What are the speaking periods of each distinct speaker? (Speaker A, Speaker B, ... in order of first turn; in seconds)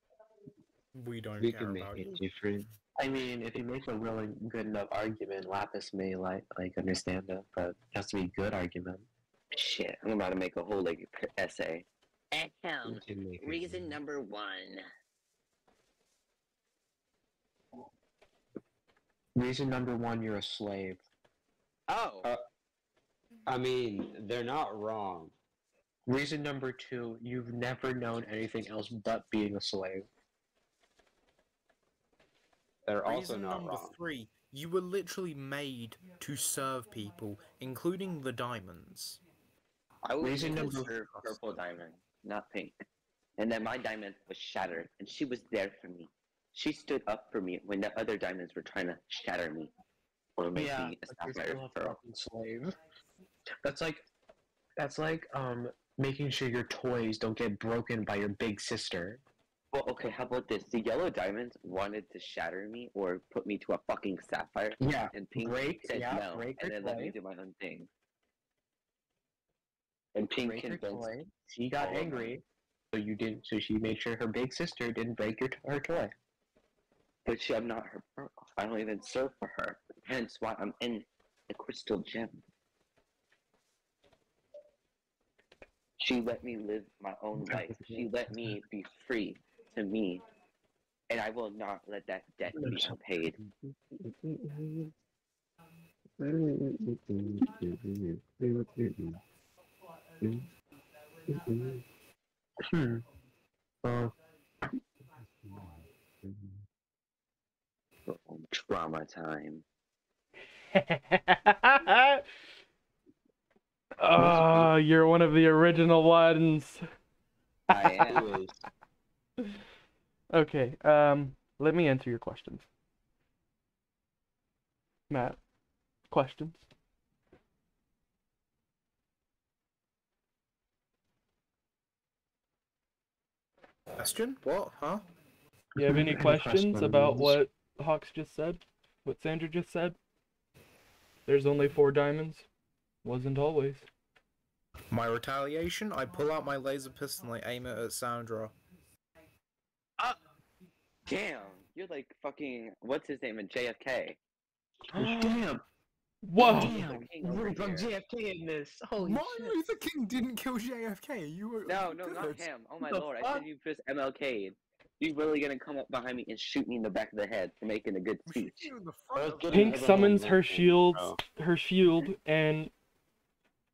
Speaker A: 0.9-2.5, 33.0-39.2, 40.4-41.6, 133.9-135.1, 144.9-148.5, 159.0-162.4, 168.3-170.2
Speaker B: 1.4-2.7, 12.8-14.0, 23.5-25.3, 32.9-34.0, 105.4-106.5, 114.2-114.7, 117.7-118.6, 169.2-171.2
Speaker C: 3.0-9.1, 19.4-21.0, 26.1-30.1, 40.2-40.9, 50.5-52.8, 53.6-54.0, 54.8-59.2, 64.8-67.2, 70.4-76.1, 87.4-88.6, 92.5-93.0, 93.6-94.9, 96.2-99.2, 101.3-101.8, 102.6-103.0, 103.8-104.1, 135.8-137.4, 154.9-155.6, 156.4-159.6, 162.8-163.4
Speaker D: 9.5-14.9, 21.9-22.3, 40.0-42.8, 43.4-49.7, 50.4-52.0, 59.7-67.9, 70.2-71.1, 71.8-72.3, 77.3-82.4, 86.0-90.2, 91.1-93.4, 108.1-109.6, 117.7-118.2, 151.1-154.2, 156.4-157.9, 161.7-168.7
Speaker E: 110.7-112.2, 114.0-116.8, 117.7-118.1, 120.3-122.7, 125.1-125.4, 126.1-126.6, 135.8-140.0, 141.3-142.5, 143.0-143.9, 154.9-155.4, 156.2-156.8, 169.5-172.7